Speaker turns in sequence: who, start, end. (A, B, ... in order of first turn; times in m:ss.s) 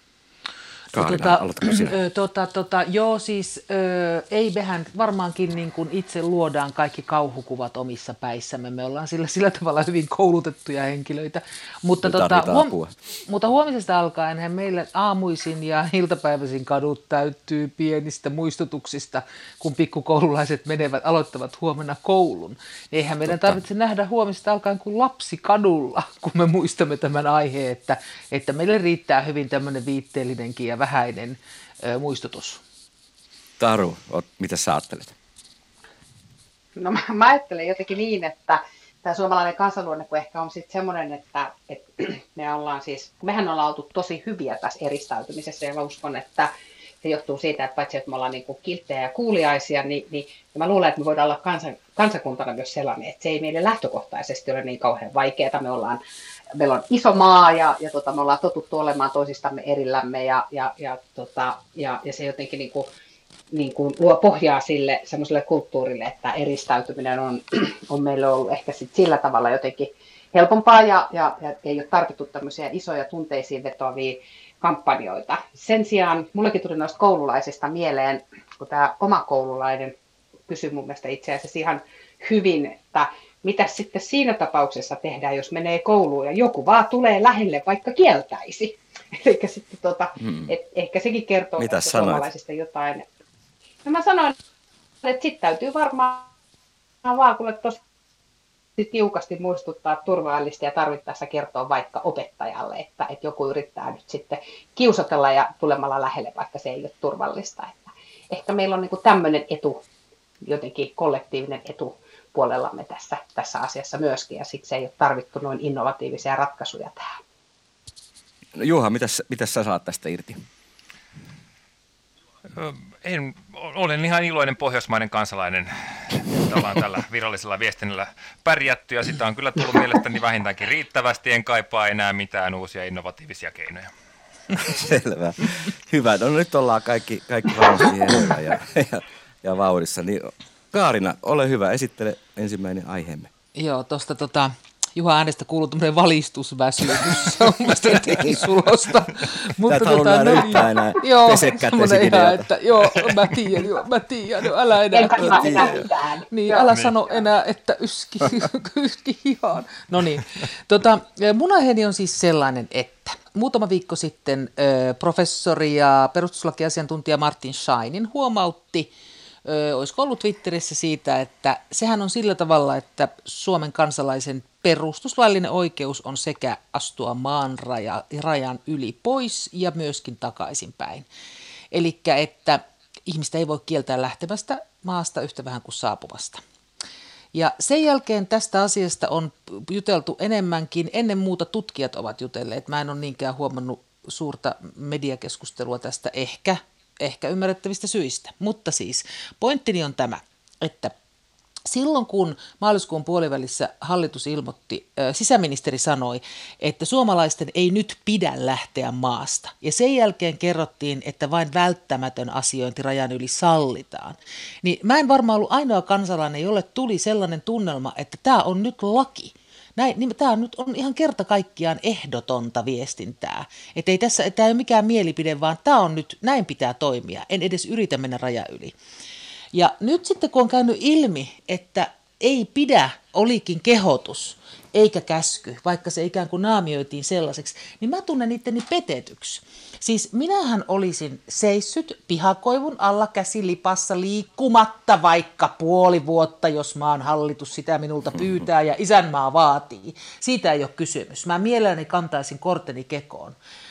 0:00.9-0:02.0 A
0:00.9-0:12.7 B
0:12.0-0:12.9 A
0:13.3-0:32.6 B
0:23.2-0:23.6 A
0:33.6-0:35.1 A
0:36.8-0:46.5 C
0:47.0-0:56.0 C
0:56.5-1:02.9 C
1:03.5-1:19.9 C
1:20.5-1:33.0 C
1:30.2-1:30.5 A
1:31.6-1:32.3 A
1:33.8-1:34.4 C
1:35.0-1:36.3 C
1:37.0-1:37.8 C
1:38.8-1:49.8 C
1:50.4-1:57.2 C
1:58.5-2:00.4 A
2:02.5-2:13.9 D
2:14.6-2:23.3 A
2:23.5-2:48.9 B
2:28.0-2:28.5 A
2:29.6-2:33.2 A
2:34.9-2:36.7 C
2:35.2-2:35.8 A
2:49.4-3:01.0 B
3:01.7-3:06.4 B
3:07.3-3:20.9 B
3:21.6-3:48.7 B
3:49.5-4:13.4 B